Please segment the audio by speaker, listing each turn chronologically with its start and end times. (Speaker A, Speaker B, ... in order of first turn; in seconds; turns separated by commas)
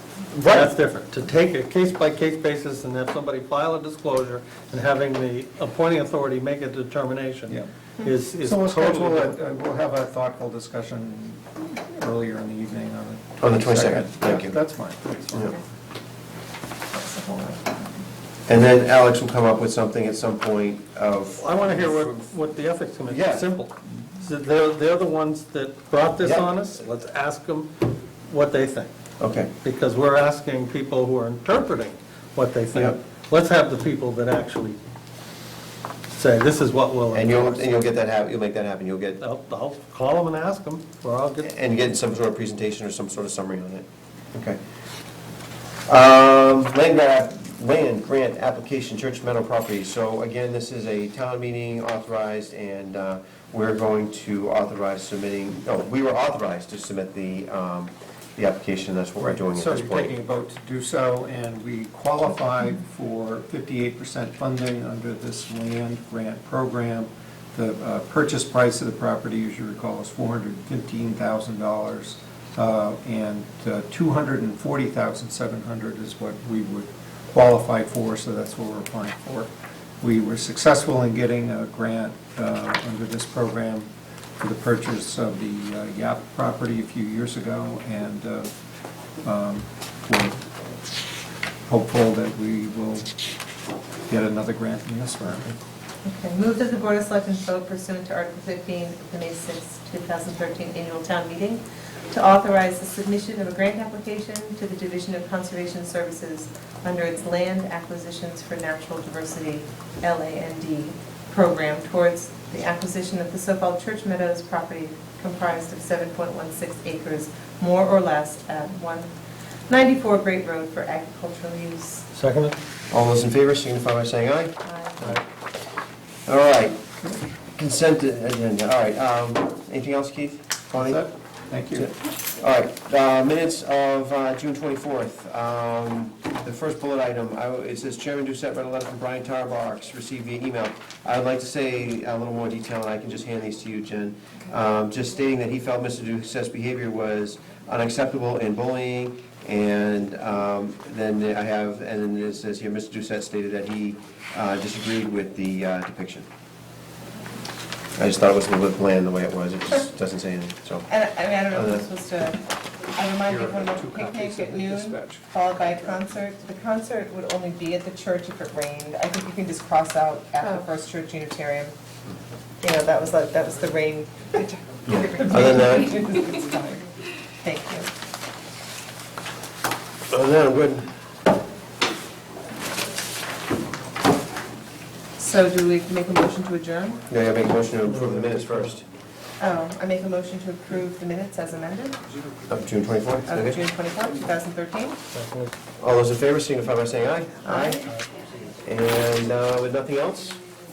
Speaker A: 0.3-9.3, Speaker B: 8.4-15.6, Speaker C: 13.4-14.6, Speaker D: 16.9-18.0, Speaker C: 18.5-22.2, Speaker A: 21.4-28.9, Speaker C: 23.1-23.5, Speaker C: 26.2-26.5, Speaker C: 29.2-29.5, Speaker A: 29.6-34.8, Speaker A: 36.1-37.9, Speaker C: 37.1-39.2, Speaker A: 39.2-41.5, Speaker C: 41.4-44.6, Speaker C: 45.9-60.1, Speaker B: 59.2-88.5, Speaker B: 89.2-90.4, Speaker B: 91.7-93.1, Speaker B: 94.1-95.5, Speaker D: 96.0-119.1, Speaker D: 119.7-122.1, Speaker A: 122.1-122.6, Speaker C: 122.9-125.2, Speaker D: 124.6-125.2, Speaker C: 126.3-126.8, Speaker C: 127.5-131.0, Speaker B: 130.8-131.9, Speaker C: 131.8-156.2, Speaker C: 158.0-160.9, Speaker D: 160.9-162.4, Speaker C: 161.5-161.8, Speaker D: 162.9-171.7, Speaker B: 164.2-165.1, Speaker D: 172.6-177.9, Speaker C: 174.9-175.9, Speaker C: 180.1-180.9, Speaker D: 185.2-187.0, Speaker C: 187.1-188.8, Speaker D: 189.4-192.0, Speaker C: 192.5-193.6, Speaker D: 193.3-195.0, Speaker A: 195.1-195.5, Speaker C: 195.8-197.9, Speaker D: 197.4-197.9, Speaker C: 198.6-200.4